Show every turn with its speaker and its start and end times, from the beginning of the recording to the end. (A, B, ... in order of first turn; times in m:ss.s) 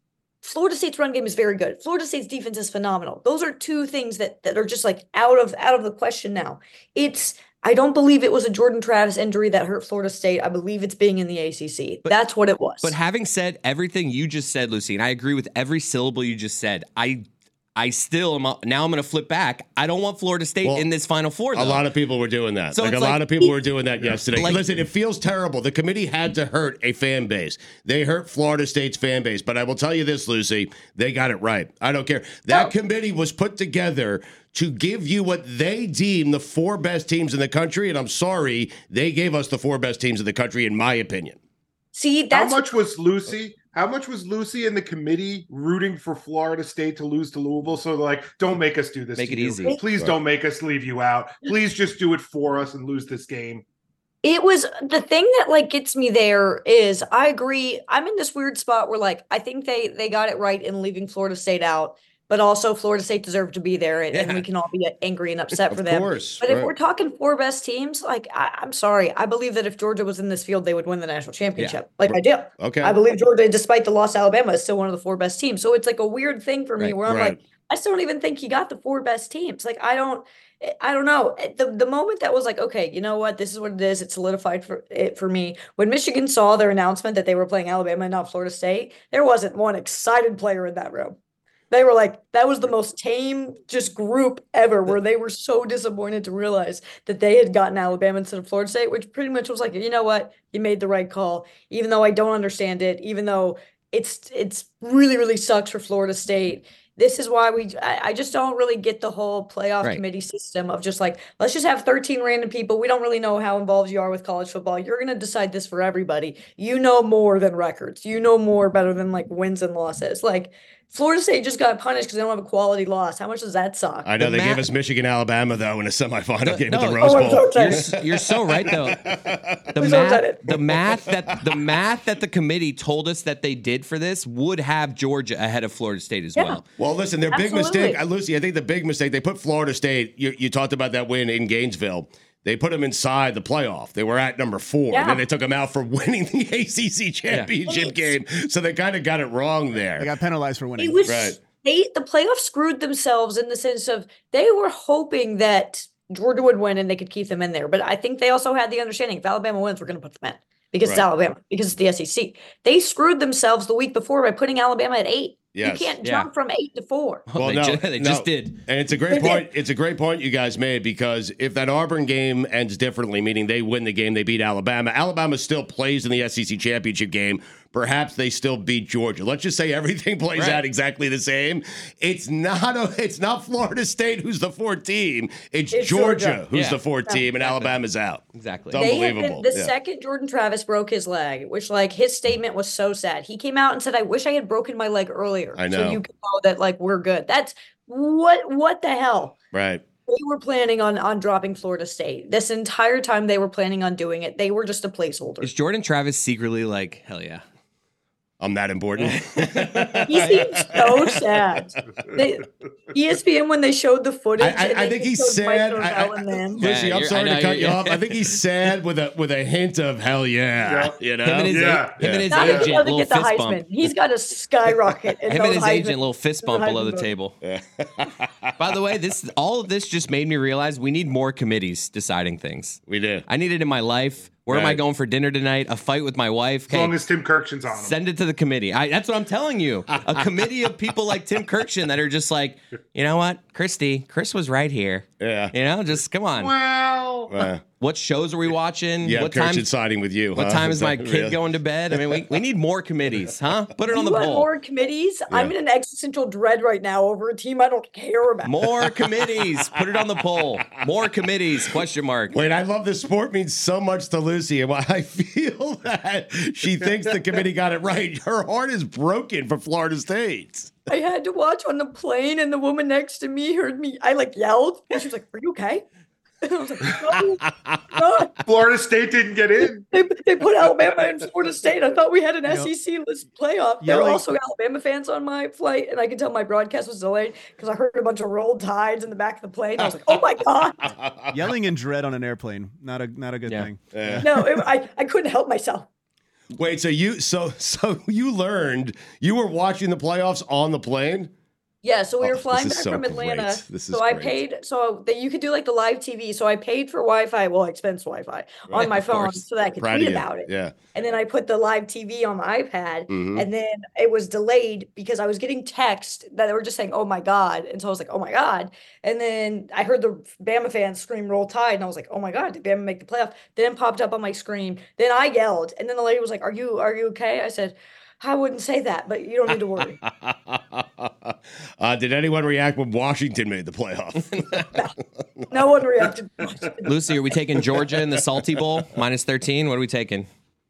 0:00.4-0:12.9 A
0:12.8-0:17.2 B
0:17.8-0:21.8 B
0:21.5-0:41.4 C
0:22.7-0:23.6 B
0:24.3-0:24.6 B
0:32.5-0:32.7 A
0:41.9-0:42.6 A
0:42.3-0:53.6 D
0:49.2-0:49.8 B
0:54.2-1:31.2 A
1:04.1-1:04.4 B
1:05.7-1:06.7 C
1:12.1-1:13.0 C
1:17.0-1:17.4 C
1:31.7-2:04.1 A
2:04.0-2:09.6 C
2:04.2-2:04.6 B
2:06.4-2:09.0 B
2:07.0-2:07.8 A
2:09.7-2:16.6 B
2:09.8-2:10.4 A
2:10.5-2:10.8 C
2:16.3-2:16.6 A
2:16.8-2:30.1 C
2:17.3-2:18.0 A
2:24.9-2:25.2 A
2:27.6-2:28.1 A
2:30.0-2:31.1 E
2:30.8-2:47.2 A
2:31.0-2:31.4 C
2:45.5-2:45.9 C
2:47.3-2:48.6 B
2:47.4-3:09.7 C
2:49.1-2:49.4 A
3:00.3-3:00.6 B
3:05.7-3:06.4 A
3:06.5-3:06.8 B
3:07.4-3:07.7 B
3:08.4-3:08.8 B
3:08.7-3:19.3 A
3:15.6-3:16.0 C
3:19.5-3:19.8 C
3:20.1-3:25.5 A
3:25.4-3:27.4 B
3:28.4-3:31.1 C
3:29.0-3:30.8 B
3:30.0-3:36.6 A
3:34.4-3:42.7 C
3:36.6-3:38.4 B
3:40.6-3:42.7 D
3:41.2-3:43.6 B
3:42.3-3:47.1 A
3:45.3-3:47.4 B
3:47.4-3:48.4 C
3:48.6-3:57.0 B
3:52.9-3:53.2 C
3:54.5-3:54.8 C
3:56.7-3:58.0 D
3:57.7-4:06.5 B
4:05.2-4:05.5 C
4:06.3-4:07.4 D
4:07.3-4:07.6 C
4:07.8-4:09.7 B
4:09.0-4:11.4 C
4:10.3-4:14.5 B
4:11.9-4:12.2 C
4:13.9-4:18.5 A
4:18.4-4:22.4 B
4:22.3-4:30.7 C
4:30.9-4:35.8 A
4:36.4-4:38.3 A
4:38.4-4:39.8 D
4:39.9-4:50.8 A
4:42.4-4:42.7 E
4:43.8-4:44.3 E
4:50.8-4:51.4 C
4:51.3-4:54.3 E
4:53.9-4:54.3 C
4:54.2-4:55.9 A
4:56.5-5:01.3 C
5:01.8-5:30.0 A
5:02.2-5:04.4 C
5:08.7-5:10.7 C
5:13.1-5:13.4 C
5:30.0-5:34.8 C
5:35.5-5:36.9 A
5:36.8-5:40.3 B